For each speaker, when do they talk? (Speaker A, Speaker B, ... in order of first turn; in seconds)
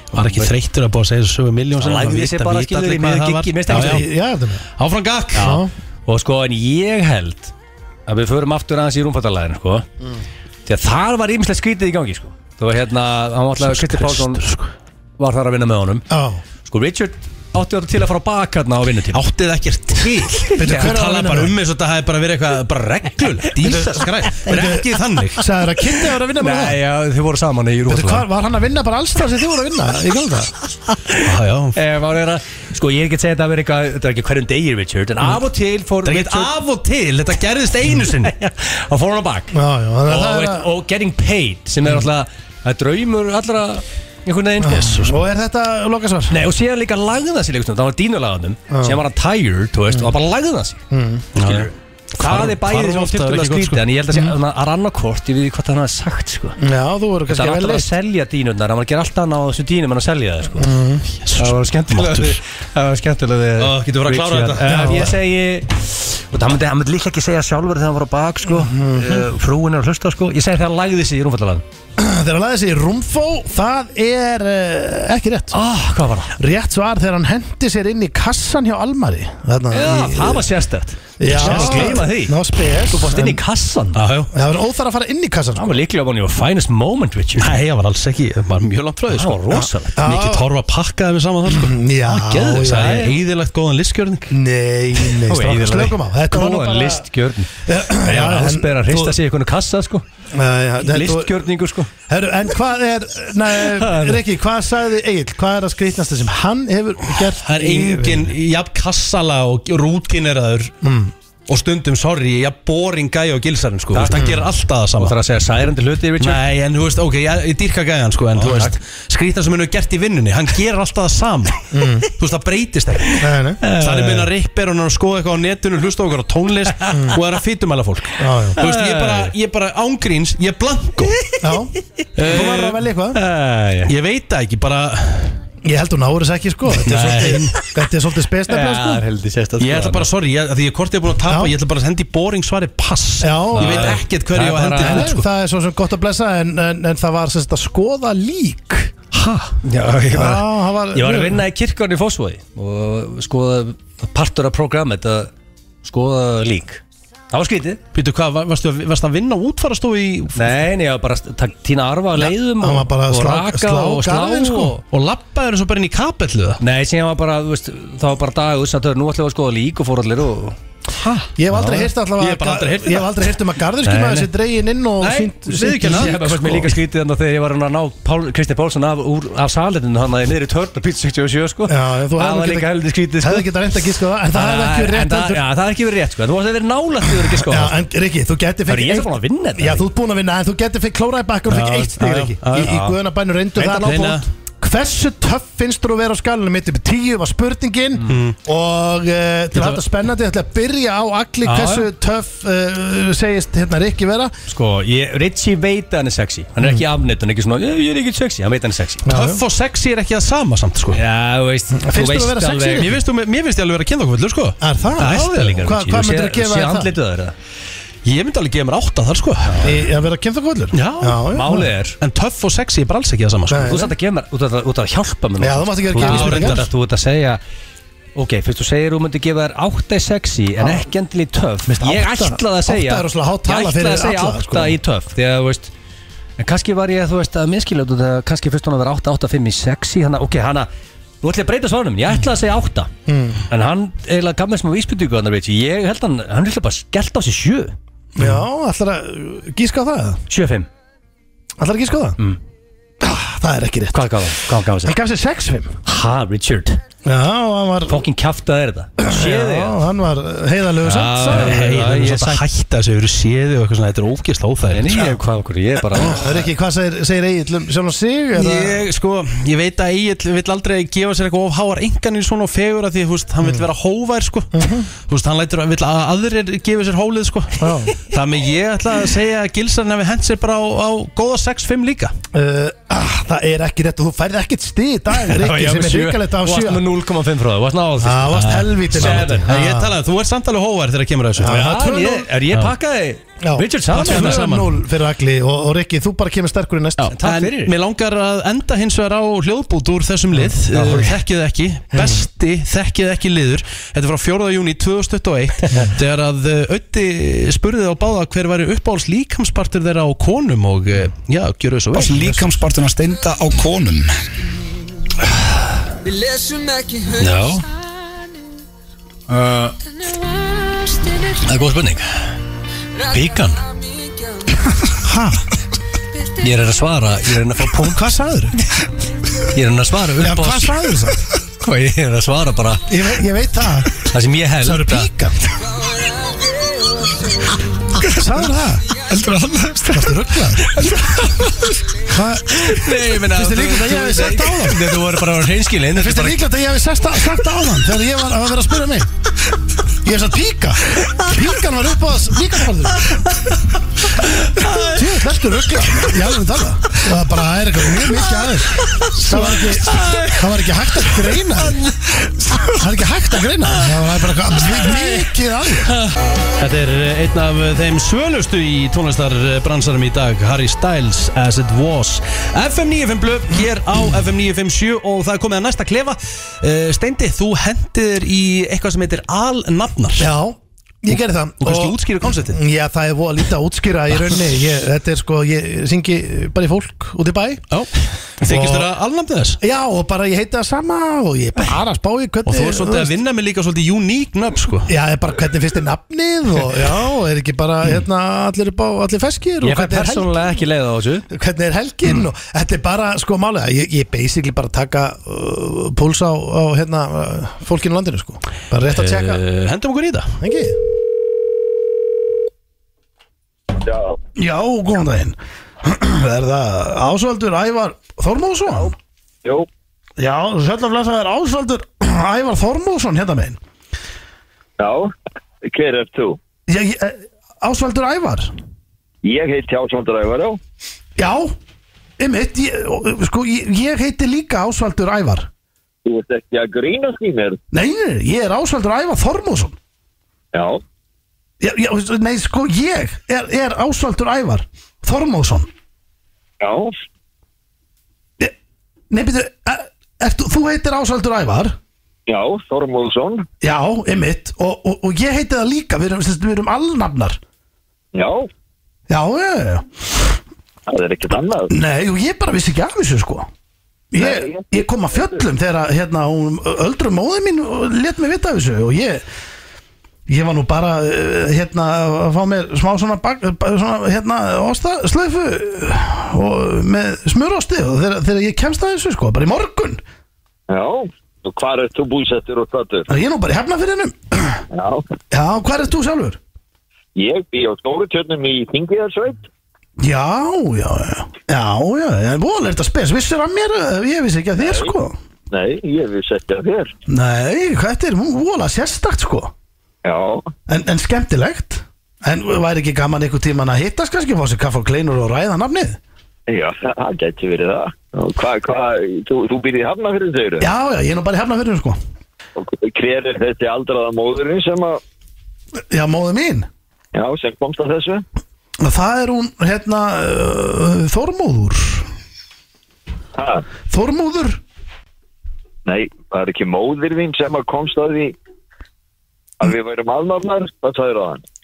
Speaker A: 0.1-4.1, 4.8-5.6, 13.6-14.7, 19.1-25.4, 31.2-31.8, 36.0-38.3, 51.4-53.8, 61.2-62.4, 63.6-65.1, 81.3-82.0, 83.9-84.3, 87.4-94.3, 107.4-110.8, 111.5-115.2, 116.2-131.2, 132.2-132.8, 133.9-135.4, 136.8-137.6, 139.6-145.2, 157.9-160.6, 164.8-166.6, 172.2-173.4, 175.8-176.7, 191.5-192.8, 193.7-194.2, 198.1-198.4, 199.5-199.8, 209.1-211.0, 212.8-214.6, 218.0-219.7, 220.7-221.3, 222.0-223.8, 226.0-226.7, 248.2-248.4, 261.2-265.2, 268.4-282.1, 288.3-291.6, 293.9-294.8, 297.0-312.4, 354.6-354.9, 359.1-360.3, 366.6-380.3, 381.6-382.6, 387.7-389.6, 392.5-394.9, 408.9-410.4
Speaker B: 0.2-0.5, 1.8-4.1, 5.3-7.5, 8.1-9.9, 10.7-14.4, 15.2-16.1, 16.7-19.2, 20.0-20.9, 23.2-24.7, 26.0-28.3, 31.8-36.6, 38.0-39.5, 40.1-45.1, 46.3-50.8, 51.4-56.6, 57.3-60.7, 61.4-71.6, 75.5-76.3, 79.7-84.0, 85.6-87.6, 89.1-90.0, 92.1-93.1, 95.2-100.0, 100.8-101.9, 103.7-104.2, 113.9-114.3, 115.0-116.4, 118.4-118.7, 123.6-124.3, 128.6-129.3, 133.2-133.9, 138.5-140.1, 143.6-145.2, 149.1-155.3, 155.8-157.8, 160.4-164.8, 166.6-171.8, 173.8-174.3, 175.0-183.6, 184.3-187.9, 188.7-189.9, 192.5-192.9, 193.6-194.1, 201.4-201.9, 204.5-209.1, 210.9-212.9, 215.0-217.3, 219.5-219.8, 221.3-222.0, 223.6-227.4, 228.2-235.7, 236.4-240.7, 241.2-242.9, 243.5-247.8, 250.3-250.7, 253.9-255.0, 255.8-256.8, 257.9-259.8, 260.8-262.4, 264.7-266.4, 285.2-289.5, 291.4-294.4, 297.1-297.8, 300.7-301.1, 317.1-317.7, 321.2-322.3, 323.0-323.7, 326.4-328.1, 329.5-330.8, 331.6-332.9, 334.0-335.1, 339.2-339.8, 340.6-341.7, 342.5-346.4, 354.6-354.9, 399.6-401.3
Speaker C: 3.7-4.7, 5.3-5.7, 16.1-16.4, 20.6-21.6, 23.6-26.8, 27.9-30.5, 39.5-40.7, 44.6-46.5, 48.7-49.0, 50.9-51.3, 56.6-57.9, 60.6-61.0, 64.7-65.2, 68.5-69.2, 72.0-75.6, 76.4-80.5, 81.2-83.4, 84.3-85.8, 89.5-90.5, 91.5-93.1, 94.3-99.2, 100.3-108.3, 110.8-111.1, 114.2-114.4, 121.7-122.1, 123.2-123.6, 128.2-128.6, 131.4-131.7, 132.2-133.2, 135.6-139.0, 141.3-141.6, 143.2-144.0, 144.8-148.9, 150.1-151.4, 162.2-164.8, 171.4-176.2, 181.7-185.4, 187.4-204.3, 209.1-209.4, 211.7-213.0, 214.6-216.9, 219.6-221.7, 223.5-223.9, 225.4-226.7, 230.6-230.8, 231.7-234.8, 243.1-243.4, 248.2-250.2, 251.6-252.2, 253.0-255.8, 257.0-258.1, 259.0-261.6, 265.9-268.9, 274.5-274.9, 277.6-277.9, 282.3-286.9, 288.0-289.9, 291.4-292.3, 293.4-297.1, 301.9-302.2, 324.9-325.4, 327.8-328.6, 330.2-331.2, 332.9-334.0, 334.6-335.4, 338.0-339.0, 339.6-340.8, 342.0-344.9, 345.9-349.1, 350.0-353.2, 354.8-361.8, 362.6-365.9, 380.2-387.6, 388.4-388.9, 389.6-393.2, 394.9-400.3, 401.3-409.4, 410.4-410.8, 414.4-418.9, 420.2-423.6, 426.7-428.5, 431.2-431.6, 432.2-435.5, 437.7-439.8, 441.6-445.7, 449.1-451.8, 453.6-457.4, 459.1-460.3, 461.7-463.5, 464.1-469.2, 470.3-480.0, 483.1-484.6, 485.3-486.4, 490.0-495.2, 497.1-499.5, 500.7-506.0, 510.6-512.0, 515.8-516.7, 518.8-522.1, 523.9-524.6
Speaker D: 311.9-314.2
Speaker E: 413.9-414.2, 418.7-418.9, 424.8-425.1, 425.6-426.4, 429.2-430.6, 436.1-437.6, 440.5-440.8, 446.6-446.9, 452.3-453.5, 458.1-458.5, 460.9-461.7, 464.2-465.4, 480.7-483.1, 484.7-485.1, 487.1-489.5, 494.6-494.9, 495.5-496.9, 500.0-500.5, 506.5-510.7, 512.6-515.0, 517.1-518.2, 523.4-523.6, 525.9-528.4, 529.6-531.4